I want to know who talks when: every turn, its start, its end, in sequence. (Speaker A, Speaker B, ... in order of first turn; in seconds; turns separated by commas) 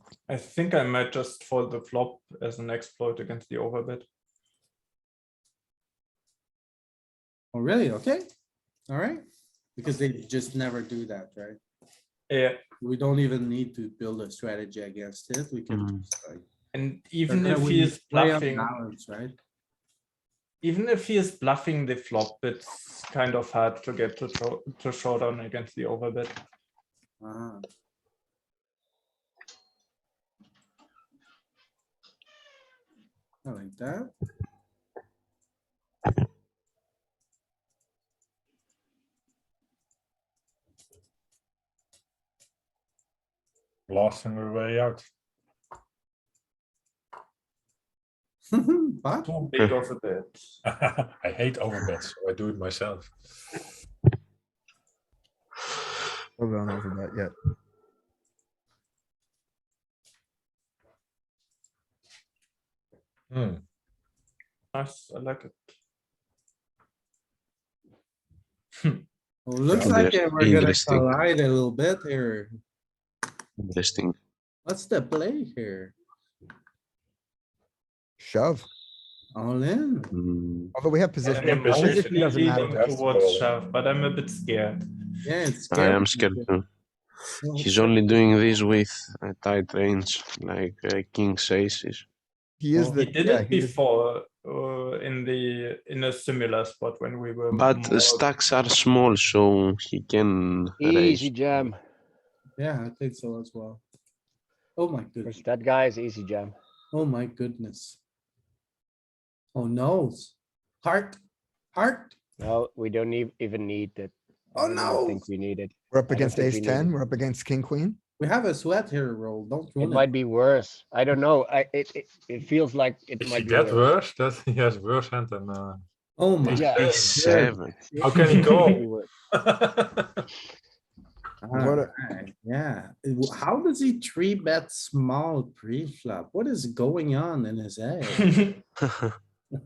Speaker A: 0.3-4.1, Speaker B: 7.5-8.3, Speaker B: 8.9-9.3, Speaker B: 9.8-11.6, Speaker A: 12.3-12.6, Speaker B: 12.8-16.4, Speaker C: 15.7-16.0, Speaker A: 16.7-18.7, Speaker B: 17.3-19.4, Speaker A: 20.6-26.4, Speaker B: 27.2-27.6, Speaker B: 33.5-34.1, Speaker D: 43.9-45.1, Speaker B: 48.5-49.3, Speaker A: 49.2-50.4, Speaker D: 50.6-53.1, Speaker E: 56.4-57.3, Speaker D: 63.3-63.6, Speaker A: 64.7-65.7, Speaker B: 69.5-72.5, Speaker D: 69.7-70.0, Speaker C: 69.8-71.2, Speaker C: 73.6-74.2, Speaker B: 74.7-76.0, Speaker E: 78.2-78.7, Speaker B: 79.3-80.1, Speaker C: 80.1-80.7, Speaker E: 80.8-82.9, Speaker A: 81.2-84.8, Speaker D: 81.3-83.5, Speaker B: 85.2-86.5, Speaker C: 85.7-86.7, Speaker B: 87.4-88.3, Speaker C: 87.6-92.0, Speaker E: 92.6-93.8, Speaker B: 92.8-93.0, Speaker A: 93.0-98.3, Speaker C: 97.5-101.7, Speaker F: 100.8-101.8, Speaker B: 102.6-103.8, Speaker B: 104.8-105.4, Speaker F: 105.2-106.5, Speaker B: 106.9-108.0, Speaker B: 109.5-111.2, Speaker B: 111.8-112.2, Speaker F: 112.4-116.9, Speaker B: 114.5-115.3, Speaker E: 115.9-118.0, Speaker B: 118.2-120.1, Speaker F: 119.8-123.9, Speaker D: 123.2-125.8, Speaker B: 126.2-127.5, Speaker D: 126.4-127.3, Speaker F: 126.5-127.0, Speaker C: 127.3-127.8, Speaker F: 127.8-129.1, Speaker D: 128.0-130.2, Speaker A: 128.1-128.8, Speaker B: 131.4-138.3, Speaker E: 131.5-131.9, Speaker A: 138.1-138.6, Speaker C: 138.8-139.1